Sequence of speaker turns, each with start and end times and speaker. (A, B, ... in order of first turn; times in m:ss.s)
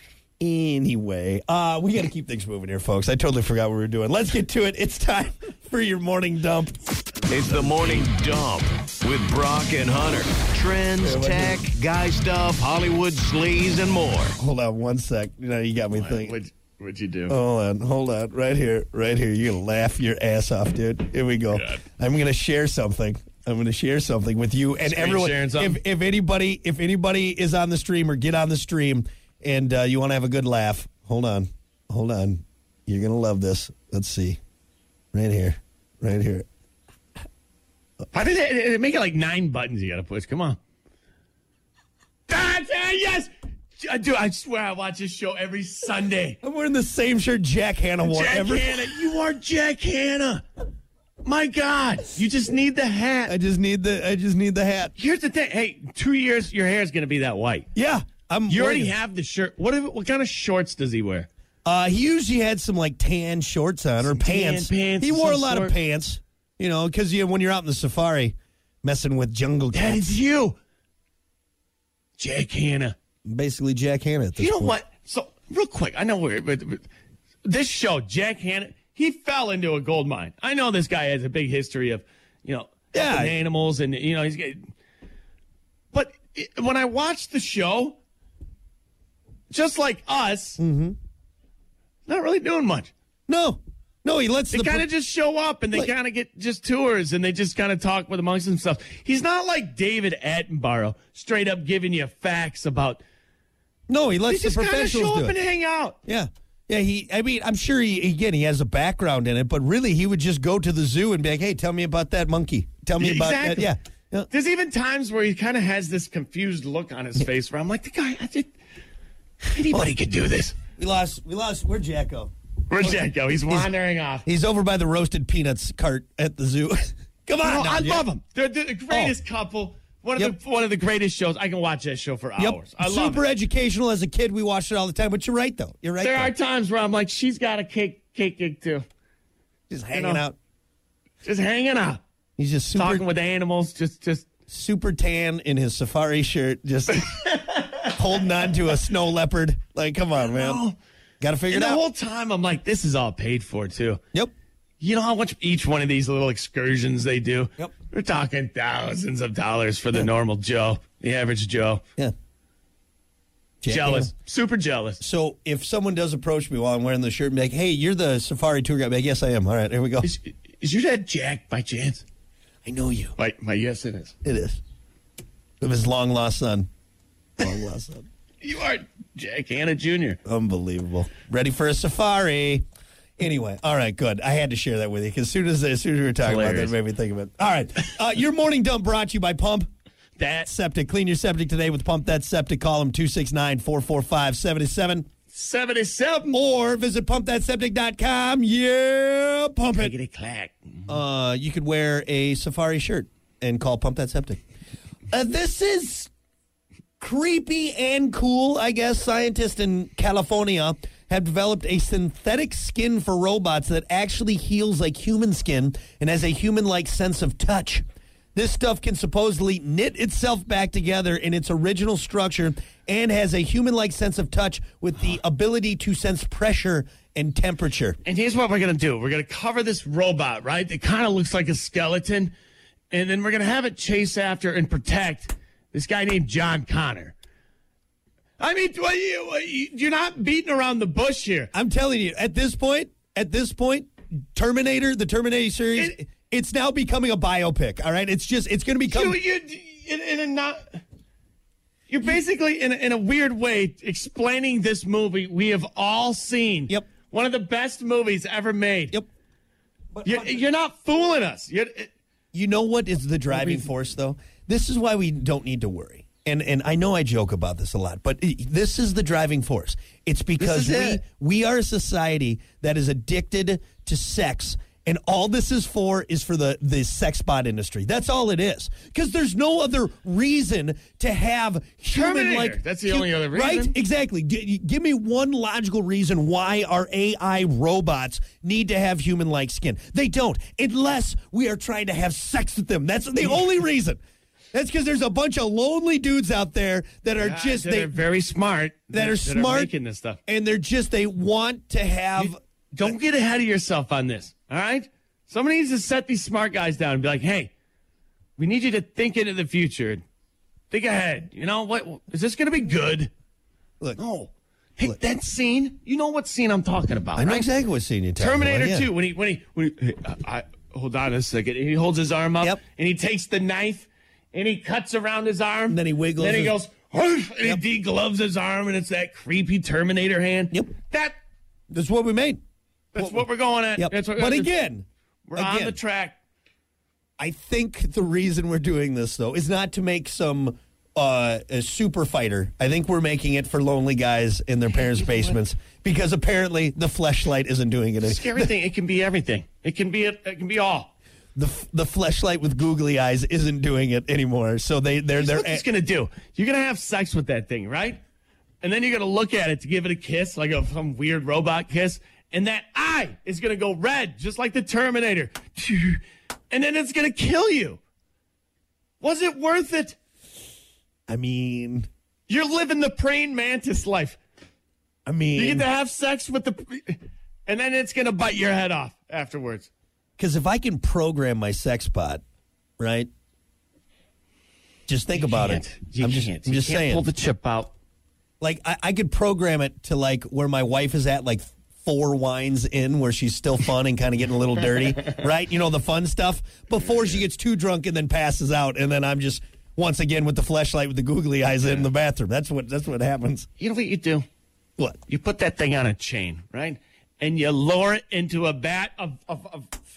0:00.4-0:08.1 A
0:07.3-0:14.4 B
0:11.0-0:11.6 A
0:14.4-0:16.4 A
0:15.9-0:17.4 C
0:17.3-0:34.4 A
0:21.5-0:21.8 C
0:24.8-0:25.8 C
0:35.1-0:36.5 A
0:38.1-0:40.6 C
0:42.3-0:46.4 C
0:46.4-0:48.9 A
0:48.0-0:50.4 C
0:51.2-0:53.4 C
0:53.3-0:54.9 A
0:55.0-0:57.7 C
0:57.8-0:58.9 A
0:58.5-1:01.3 C
1:01.6-1:10.0 A
1:04.0-1:05.8 C
1:09.7-1:10.6 C
1:12.2-1:13.0 C
1:13.3-1:14.8 A
1:14.4-1:16.8 C
1:17.4-1:24.7 C
1:22.9-1:23.3 A
1:25.9-1:28.0 C
1:29.5-1:30.6 C
1:30.6-1:31.0 A
1:32.1-1:32.9 C
1:33.3-1:34.9 A
1:34.5-1:43.0 C
1:43.9-1:45.4 A
1:44.3-1:46.0 C
1:46.1-1:54.3 A
1:53.0-1:53.7 C
1:54.3-1:58.5 C
1:59.5-2:00.6 C
1:59.7-2:00.0 A
2:00.8-2:02.3 A
2:02.7-2:04.3 C
2:04.2-2:08.0 A
2:07.4-2:13.2 C
2:12.4-2:16.3 A
2:16.0-2:18.8 C
2:19.7-2:20.4 A
2:19.9-2:20.2 C
2:21.2-2:22.0 C
2:22.4-2:23.0 A
2:22.8-2:24.3 C
2:24.5-2:27.3 A
2:27.1-2:27.9 C
2:27.8-2:30.6 A
2:30.2-2:30.8 C
2:31.2-2:31.8 A
2:31.5-2:34.0 C
2:34.8-2:41.8 C
2:43.6-2:44.1 A
2:43.7-2:45.0 C
2:45.0-2:50.1 A
2:50.0-2:52.0 C
2:52.6-2:53.2 A
2:53.2-2:54.2 C
2:54.2-2:54.6 A
2:55.6-2:56.7 A
2:57.4-2:58.1 A
2:58.4-3:00.2 C
3:00.2-3:02.6 A
3:03.2-3:09.7 A
3:06.2-3:06.8 C
3:10.2-3:10.5 C
3:10.4-3:15.1 A
3:15.3-3:16.4 C
3:16.3-3:19.9 A
3:19.8-3:20.8 C
3:20.9-3:24.4 A
3:25.1-3:26.1 A
3:27.0-3:37.8 A
3:38.4-3:48.0 A
3:48.0-3:52.3 C
3:52.9-3:57.2 C
3:58.4-4:01.5 C
4:01.5-4:09.2 A
4:08.9-4:10.8 C
4:11.9-4:19.0 C
4:19.9-4:20.4 A
4:20.0-4:21.9 C
4:22.3-4:54.0 A
4:23.3-4:23.7 C
4:30.4-4:31.0 C
4:41.9-4:43.7 C
4:54.5-4:58.0 A
4:57.2-5:00.2 C
4:58.9-4:59.7 A
5:00.3-5:02.4 A
5:02.2-5:07.5 C
5:08.4-5:10.0 C
5:10.7-5:13.1 C
5:14.0-5:17.5 C
5:17.2-5:18.9 A
5:18.2-5:31.2 C
5:25.7-5:26.6 A
5:31.7-5:32.4 A
5:32.9-5:34.5 C
5:33.0-5:33.2 A
5:33.8-5:35.8 A
5:35.3-5:36.2 C
5:37.2-5:48.5 A
5:44.8-5:45.4 C
5:48.0-5:50.9 C
5:51.4-5:55.6 A
5:55.2-5:58.0 C
5:58.6-6:07.8 C
6:09.0-6:10.0 C
6:11.1-6:11.9 A
6:12.3-6:14.2 C
6:15.1-6:15.7 A
6:15.4-6:19.7 C
6:20.2-6:22.2 A
6:22.8-6:23.1 A
6:24.9-6:27.0 A
6:25.2-6:27.7 C
6:28.4-6:43.5 A
6:43.6-6:44.3 C
6:45.1-6:49.7 C